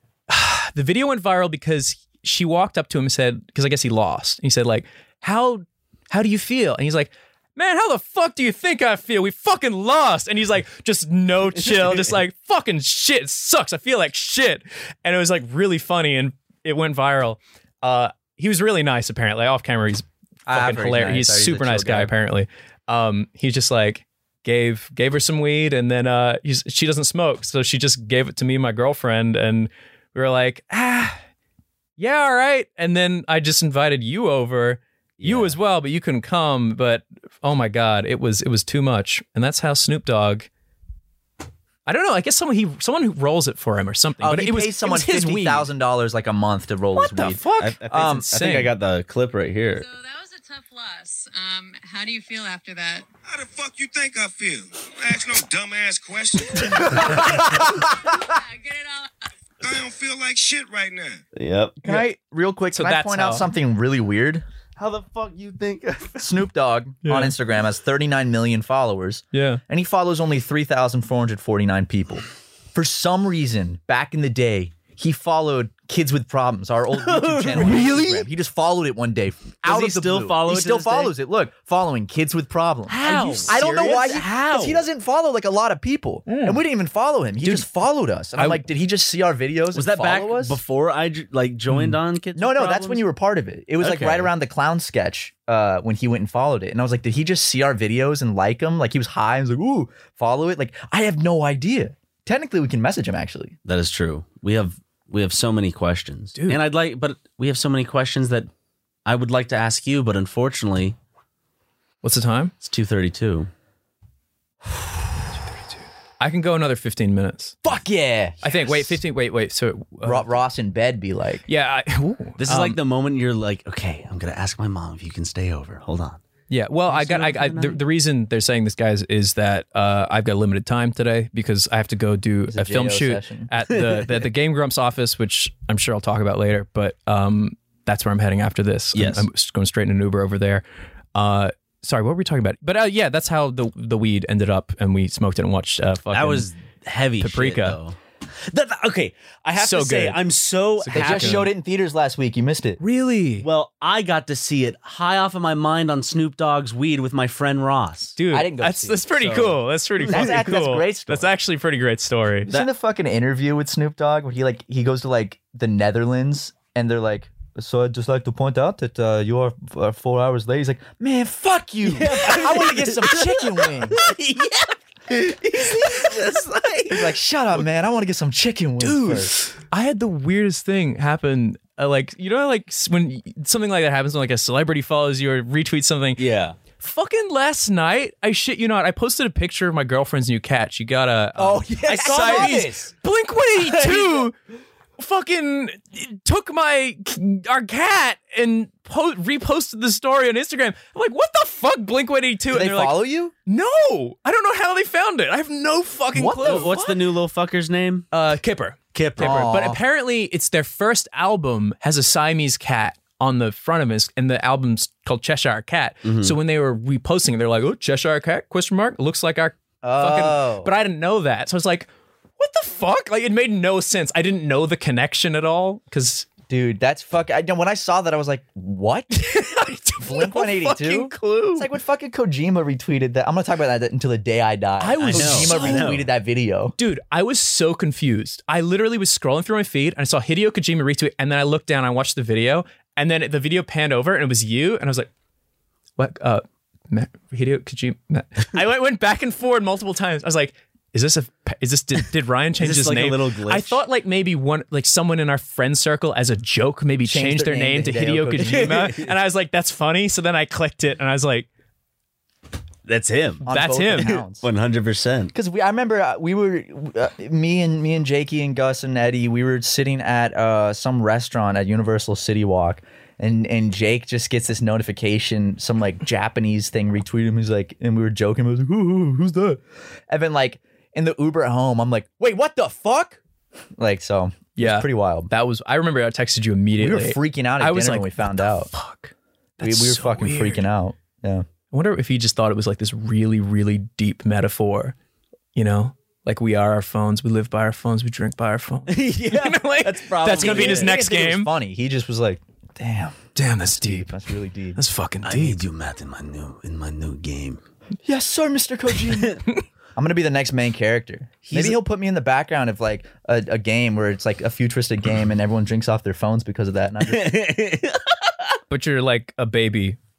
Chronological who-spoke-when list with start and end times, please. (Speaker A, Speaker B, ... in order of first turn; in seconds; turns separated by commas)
Speaker A: 0.3-31.2, Speaker B: 11.7-12.0, Speaker C: 20.5-22.1, Speaker A: 32.0-40.5, Speaker B: 35.2-35.6, Speaker A: 41.9-45.7, Speaker C: 44.2-48.3, Speaker A: 47.0-48.7, Speaker B: 47.6-49.9, Speaker D: 49.7-53.1, Speaker E: 53.3-57.2, Speaker C: 56.7-57.8, Speaker D: 57.1-59.1, Speaker E: 59.6-61.2, Speaker B: 61.4-62.0, Speaker C: 61.8-64.4, Speaker A: 62.7-63.5, Speaker B: 64.8-66.3, Speaker C: 66.2-90.6, Speaker A: 67.0-67.3, Speaker A: 69.3-69.6, Speaker B: 77.0-78.2, Speaker A: 77.6-78.1, Speaker B: 79.6-81.1, Speaker B: 82.9-84.9, Speaker A: 83.0-83.8, Speaker A: 86.3-86.6, Speaker A: 87.4-87.7, Speaker A: 88.3-88.6, Speaker B: 89.7-93.0, Speaker A: 91.7-92.0, Speaker C: 92.4-103.6, Speaker B: 93.8-94.3, Speaker B: 103.7-108.5, Speaker B: 109.1-111.0, Speaker A: 112.0-112.5, Speaker B: 112.6-113.5, Speaker A: 116.2-117.6, Speaker C: 117.6-119.0, Speaker A: 118.4-120.4, Speaker C: 120.0-121.5, Speaker A: 121.5-122.8, Speaker B: 122.4-126.2, Speaker A: 126.5-140.6, Speaker B: 126.9-127.8, Speaker C: 132.5-133.5, Speaker B: 133.7-134.2, Speaker B: 138.9-139.3, Speaker A: 141.2-146.5, Speaker B: 146.1-151.5, Speaker A: 147.2-147.8, Speaker A: 149.6-150.2, Speaker A: 150.8-151.5, Speaker C: 150.9-152.8, Speaker A: 152.8-153.5, Speaker B: 153.4-158.2, Speaker A: 158.2-162.5, Speaker C: 158.3-159.1, Speaker B: 159.2-160.4, Speaker C: 160.1-161.3, Speaker C: 162.5-174.0, Speaker B: 171.8-177.2, Speaker C: 176.9-179.3, Speaker A: 178.8-186.2, Speaker B: 186.2-186.6, Speaker A: 186.8-194.3, Speaker C: 191.4-192.9, Speaker B: 191.9-192.8, Speaker B: 193.6-194.3, Speaker A: 195.0-206.8, Speaker C: 202.5-203.3, Speaker C: 206.2-206.9, Speaker B: 206.4-208.1, Speaker A: 208.1-226.3, Speaker B: 208.9-209.4, Speaker C: 209.2-209.8, Speaker B: 216.1-216.4, Speaker C: 219.8-220.7, Speaker C: 226.5-229.5, Speaker A: 229.1-231.7, Speaker C: 230.0-236.8, Speaker A: 234.8-235.9, Speaker B: 235.0-236.1, Speaker A: 236.8-245.1, Speaker A: 246.0-261.5, Speaker B: 252.6-253.8, Speaker C: 257.0-258.9, Speaker B: 258.4-259.1, Speaker B: 262.9-263.5, Speaker C: 263.4-264.5, Speaker A: 263.5-264.2, Speaker B: 264.0-265.4, Speaker C: 265.3-283.2, Speaker C: 283.8-285.3, Speaker A: 284.6-290.7, Speaker C: 286.8-288.7, Speaker C: 289.6-291.4, Speaker A: 291.7-294.9, Speaker A: 295.6-301.5, Speaker B: 298.9-301.0, Speaker C: 300.3-304.8, Speaker A: 303.4-304.1, Speaker A: 304.8-305.6, Speaker B: 305.2-307.6, Speaker C: 308.0-309.4, Speaker B: 309.1-309.4, Speaker C: 310.0-317.4, Speaker B: 311.4-311.8, Speaker B: 317.1-318.5, Speaker A: 318.7-320.0